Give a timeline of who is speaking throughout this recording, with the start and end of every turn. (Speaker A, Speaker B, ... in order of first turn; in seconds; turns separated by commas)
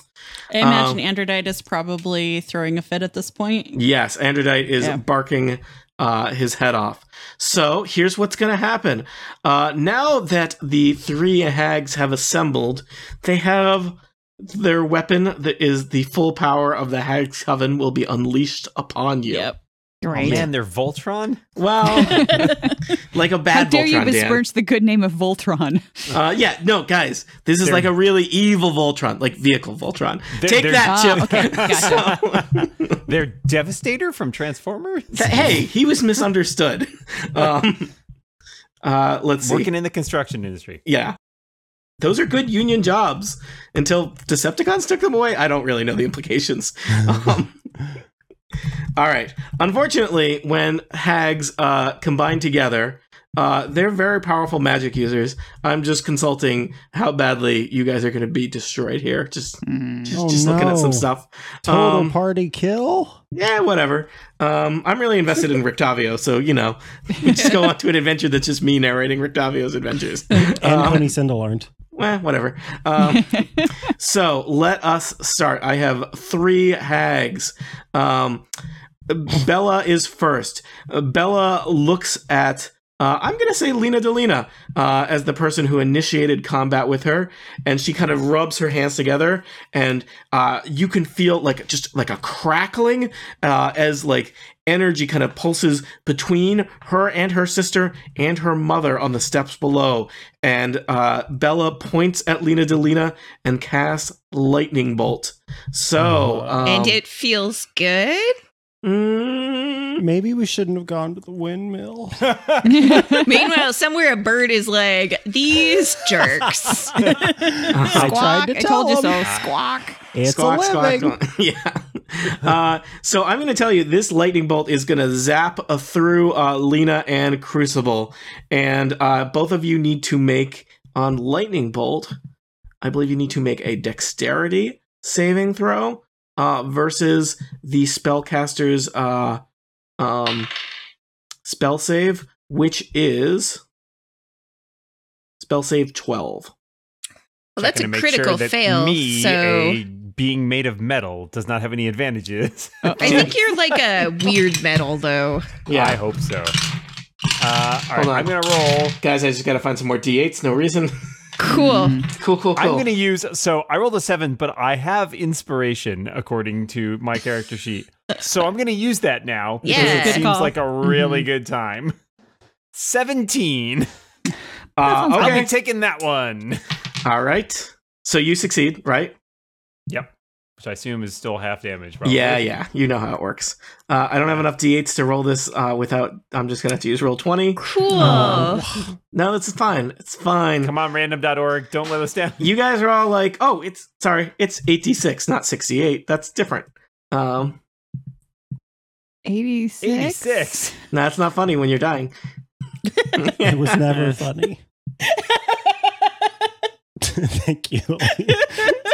Speaker A: 0.5-3.8, Speaker B: 0.6-1.0, Speaker B: 3.8-19.6, Speaker C: 20.0-20.4, Speaker D: 20.1-21.5, Speaker B: 21.6-24.4, Speaker C: 21.9-22.8, Speaker C: 23.5-25.9, Speaker B: 26.1-33.0, Speaker D: 27.6-27.9, Speaker D: 30.4-35.6, Speaker C: 30.8-32.0, Speaker B: 35.1-37.9, Speaker B: 38.8-39.7, Speaker D: 39.4-40.8, Speaker B: 40.9-41.2, Speaker B: 42.0-47.6, Speaker B: 49.0-62.1, Speaker C: 59.6-60.2, Speaker E: 60.1-61.1, Speaker E: 61.7-63.2, Speaker B: 63.3-71.1, Speaker E: 70.4-71.7, Speaker B: 71.9-78.5, Speaker C: 73.0-73.7, Speaker B: 79.1-107.0, Speaker D: 106.1-106.8, Speaker F: 106.7-108.3, Speaker B: 108.8-110.0, Speaker E: 110.0-112.2, Speaker D: 112.2-113.2, Speaker C: 112.6-113.3, Speaker F: 112.9-117.1, Speaker E: 117.5-119.4, Speaker B: 117.7-118.2, Speaker C: 117.9-120.0, Speaker D: 119.2-119.5, Speaker E: 120.1-121.2, Speaker B: 120.2-132.2, Speaker B: 132.8-139.4, Speaker B: 140.0-140.5, Speaker B: 141.4-143.6, Speaker B: 145.4-146.5, Speaker F: 147.6-149.8, Speaker D: 147.6-153.3, Speaker C: 152.8-153.3, Speaker F: 153.0-155.6, Speaker B: 153.0-153.3, Speaker B: 155.7-156.0, Speaker D: 155.7-156.6, Speaker D: 157.4-159.0, Speaker B: 158.0-158.3, Speaker B: 159.0-160.9, Speaker F: 161.4-162.1, Speaker C: 161.5-162.1, Speaker B: 162.1-162.9, Speaker D: 162.6-171.9, Speaker F: 169.6-170.3, Speaker B: 169.8-170.2, Speaker C: 170.0-171.3, Speaker D: 172.7-173.9, Speaker B: 174.8-175.5, Speaker C: 174.8-175.5, Speaker D: 175.1-176.6, Speaker B: 177.0-179.2, Speaker D: 179.9-182.4, Speaker B: 182.1-188.5, Speaker F: 187.6-188.6, Speaker E: 187.9-188.9, Speaker B: 189.1-190.7, Speaker D: 190.6-192.5, Speaker B: 192.4-197.6, Speaker C: 199.2-200.7, Speaker D: 199.8-200.8, Speaker B: 200.9-202.1, Speaker B: 203.0-204.1, Speaker E: 203.4-204.6, Speaker D: 203.9-204.2, Speaker A: 205.3-205.6, Speaker E: 207.0-208.5